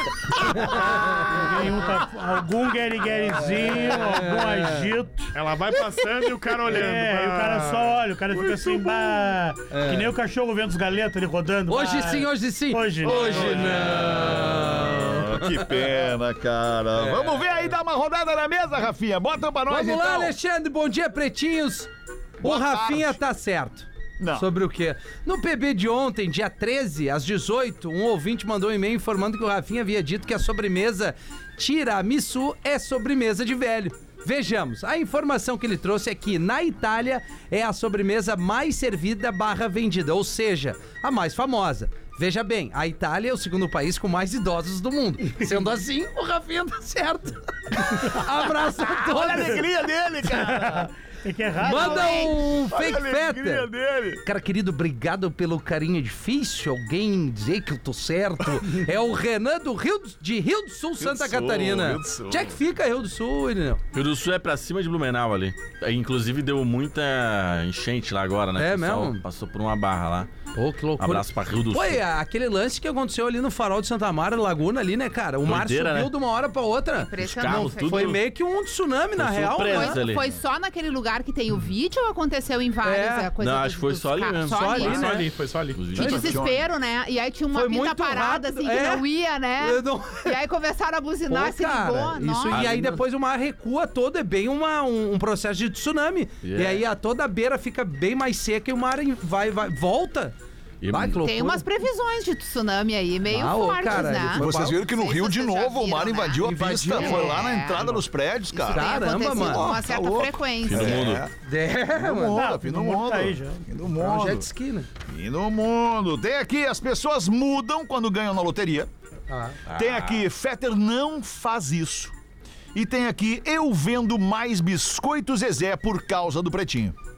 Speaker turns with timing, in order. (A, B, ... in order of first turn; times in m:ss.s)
0:00.6-0:05.3 A
0:03.8-0:04.8 B
0:05.3-0:09.1 C
0:06.6-0:13.6 A
0:09.7-0:10.0 B
0:11.7-0:15.8 B
0:13.0-0:14.8 D
0:13.2-0:20.3 E
0:17.0-0:17.4 B
0:19.7-0:49.6 B
0:22.4-0:23.2 E
0:24.2-0:24.5 E
0:48.9-0:50.9 E
0:50.3-0:52.3 A
0:51.6-0:53.7 B
0:51.6-0:52.4 F
0:52.6-0:54.2 E
0:54.2-1:03.8 B
1:01.0-1:02.6 E
1:03.9-1:10.3 D
1:08.6-1:09.2 B
1:10.5-1:20.0 B
1:11.0-1:12.0 D
1:15.4-1:16.1 D
1:17.0-1:18.2 F
1:17.2-1:18.2 D
1:19.1-1:20.3 D
1:19.6-1:25.0 F
1:22.8-1:23.3 B
1:23.4-1:26.4 D
1:24.5-1:25.3 B
1:24.7-1:25.9 C
1:25.9-1:32.6 F
1:26.0-1:26.3 B
1:26.0-1:26.7 E
1:27.5-1:29.0 B
1:29.6-1:30.4 B
1:31.3-1:40.3 B
1:32.5-1:33.0 D
1:36.4-1:36.8 D
1:40.8-1:41.2 D
1:40.9-1:41.6 B
1:41.1-1:48.0 F
1:43.3-1:44.8 B
1:44.3-1:51.3 E
1:46.4-1:47.4 B
1:48.5-1:51.2 F
1:48.7-1:49.7 B
1:50.6-1:51.2 D
1:51.4-1:52.4 B
1:51.9-1:54.5 E
1:52.3-1:53.6 A
1:53.9-1:54.9 B
1:55.1-1:58.9 E
1:59.3-1:59.6 B
1:59.7-2:00.2 D
1:59.7-2:02.1 E
2:02.7-2:06.9 E